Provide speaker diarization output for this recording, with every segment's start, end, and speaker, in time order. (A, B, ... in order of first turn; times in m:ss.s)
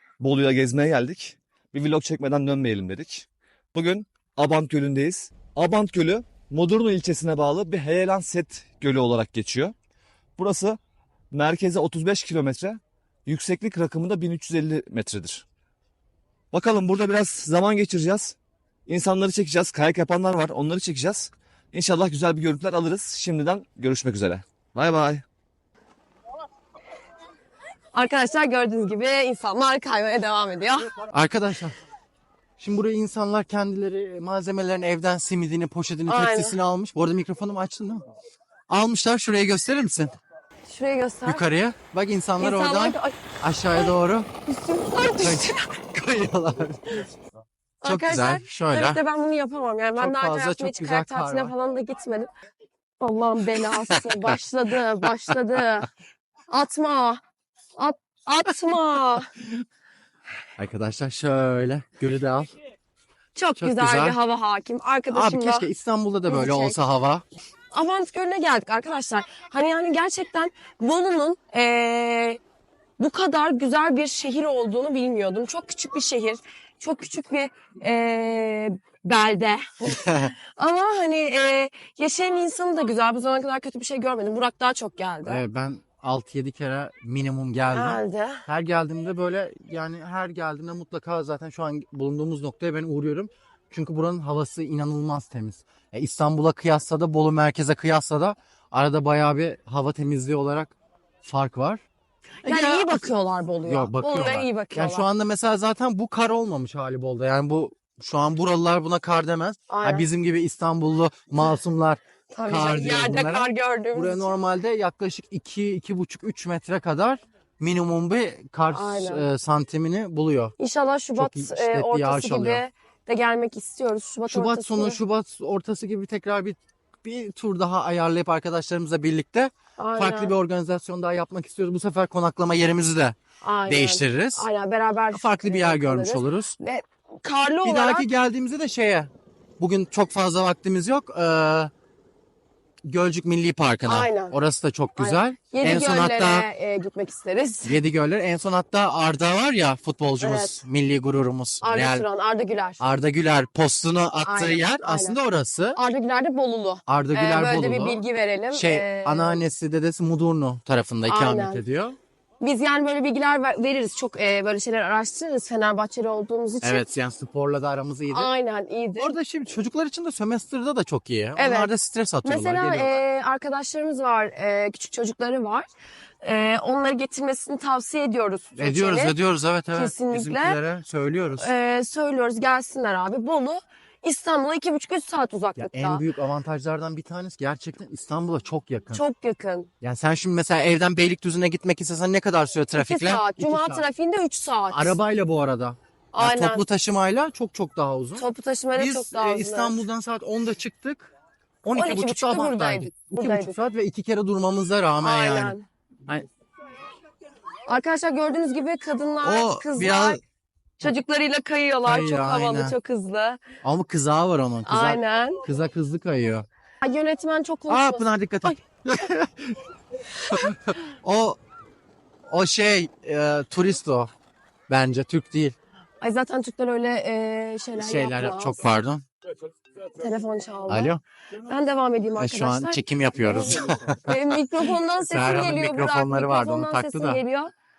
0:00.2-0:09.8 A
0:10.4-0:10.8 A
0:11.3-0:15.4 A
0:16.5-0:25.2 A
0:27.9-0:30.9 B
0:31.1-0:31.8 C
0:32.6-0:38.0 C
0:36.1-0:36.6 B
0:38.7-0:40.1 C
0:40.7-0:41.4 B
0:41.3-0:44.3 C
0:42.4-0:43.2 B
0:44.5-0:45.6 B
0:45.2-0:47.0 C
0:47.8-0:52.3 B
0:47.8-0:49.0 C
0:50.0-0:51.5 C
0:53.0-0:55.9 B
0:53.6-0:54.4 C
0:56.5-0:57.2 B
0:57.8-0:59.3 B
1:00.6-1:02.5 C
1:03.4-1:05.7 B
1:03.6-1:04.2 C
1:05.1-1:07.2 C
1:06.3-1:06.8 B
1:07.7-1:12.4 B
1:13.0-1:25.4 B
1:20.0-1:20.3 C
1:25.2-1:41.8 C
1:27.7-1:28.4 B
1:42.4-1:43.1 C
1:42.4-1:45.1 B
1:43.6-2:00.5 C
1:49.7-1:50.1 B
1:52.3-1:54.3 B
1:58.7-1:59.2 B
2:00.6-2:05.0 B
2:01.2-2:02.6 C
2:04.3-2:13.2 C
2:09.8-2:10.3 B
2:13.4-2:18.1 B
2:13.7-2:14.5 C
2:15.1-2:16.6 C
2:17.6-2:21.7 C
2:22.8-2:26.5 C
2:23.8-2:24.4 B
2:25.0-2:27.8 B
2:27.6-2:32.1 C
2:30.2-2:30.6 B
2:31.6-2:32.8 B
2:32.8-2:35.8 C
2:34.2-2:35.2 B
2:35.8-2:39.4 B
2:36.9-2:42.0 C
2:41.1-2:41.6 B
2:42.4-2:46.9 B
2:46.6-2:48.3 C
2:48.1-2:49.2 B
2:49.0-2:53.0 C
2:51.4-2:51.7 B
2:52.2-2:55.7 B
2:56.2-2:59.2 B
2:58.6-3:01.5 C
2:59.7-3:00.6 B
3:01.4-3:06.0 B
3:05.6-3:09.0 C
3:08.9-3:09.7 B
3:09.8-3:13.8 C
3:12.8-3:15.0 B
3:14.7-3:18.2 C
3:16.1-3:16.6 B
3:18.2-3:19.8 B
3:18.8-3:21.1 C
3:21.6-3:25.6 C
3:21.8-3:23.6 B
3:25.0-3:25.6 B
3:27.7-3:30.2 B
3:29.2-3:30.2 C
3:30.8-3:33.4 B
3:31.8-3:32.8 C
3:33.6-3:36.5 C
3:34.6-3:35.4 B
3:36.8-3:38.6 B
3:37.7-3:39.6 C
3:40.3-3:41.4 C
3:42.3-3:44.1 C
3:44.7-3:45.6 C
3:46.0-3:48.6 B
3:47.8-3:49.0 C
3:50.0-3:50.9 B
3:50.7-3:51.0 C
3:51.4-3:57.5 B
3:52.2-3:54.2 C
3:55.0-3:57.2 C